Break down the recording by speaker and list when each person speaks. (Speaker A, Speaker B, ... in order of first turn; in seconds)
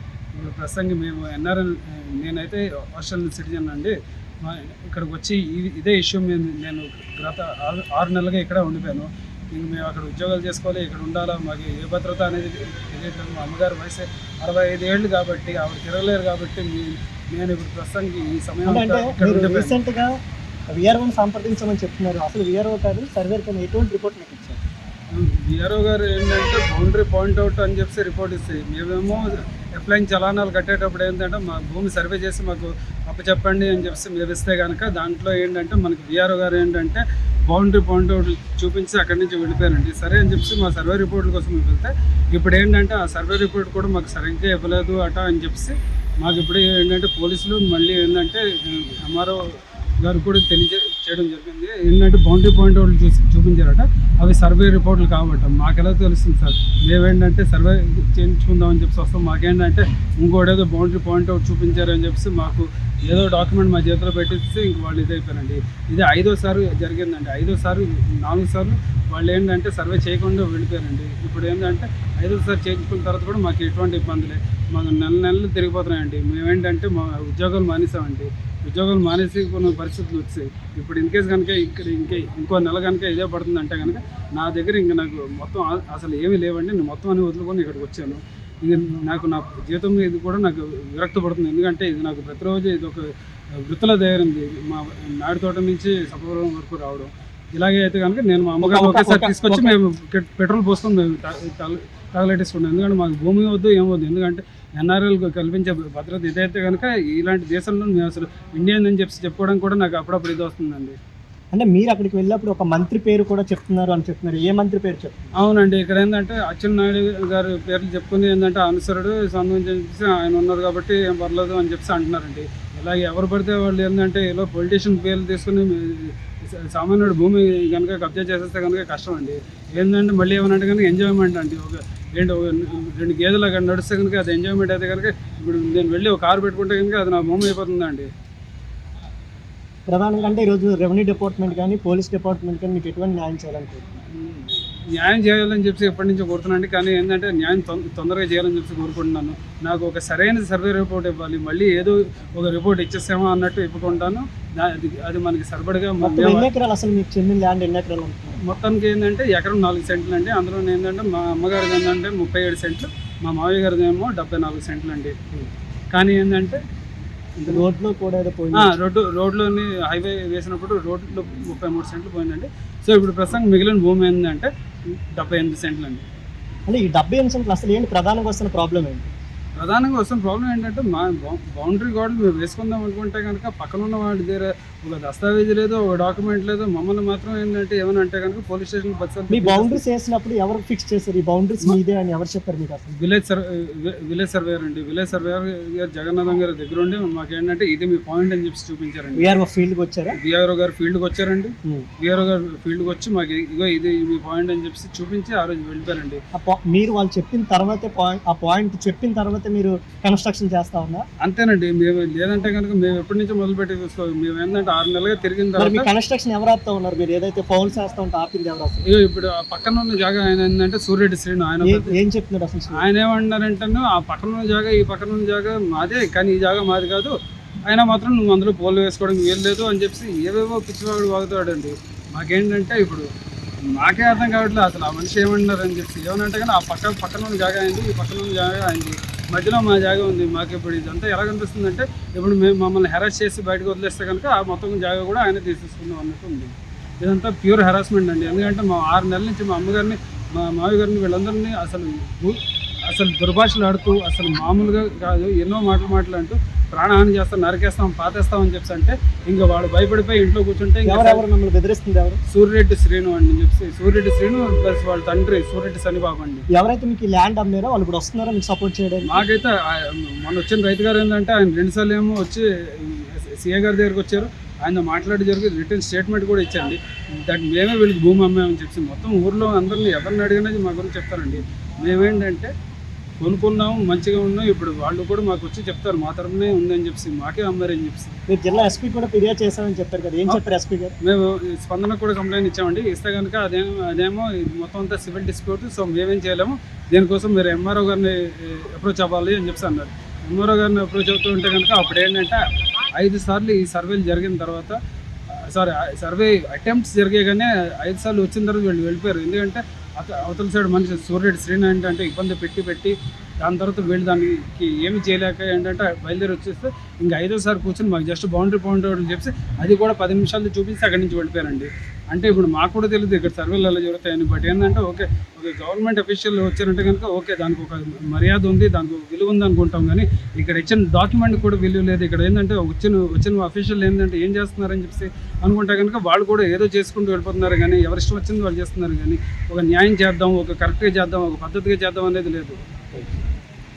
Speaker A: 0.3-19.8, 25.1-49.4, 50.0-93.1, 93.6-111.0, 115.4-138.1, 144.2-156.5, 158.4-165.2, 165.9-166.6, 168.5-176.0, 179.6-189.8, 192.9-199.3, 200.2-206.2, 211.2-215.9, 218.8-221.9, 222.7-227.1, 227.7-233.1, 233.7-261.2, 262.3-266.4, 269.0-282.5, 283.2-288.2, 291.0-302.4, 302.9-304.8, 305.3-342.6
Speaker B: 18.6-20.1, 20.7-24.6, 98.6-99.8, 111.5-115.2, 139.9-143.8, 156.0-158.4, 167.5-168.8, 176.7-179.0, 189.3-192.9, 199.2-200.2, 206.3-211.0, 215.6-218.8, 221.6-222.8, 260.9-262.2, 266.5-269.2, 288.3-290.9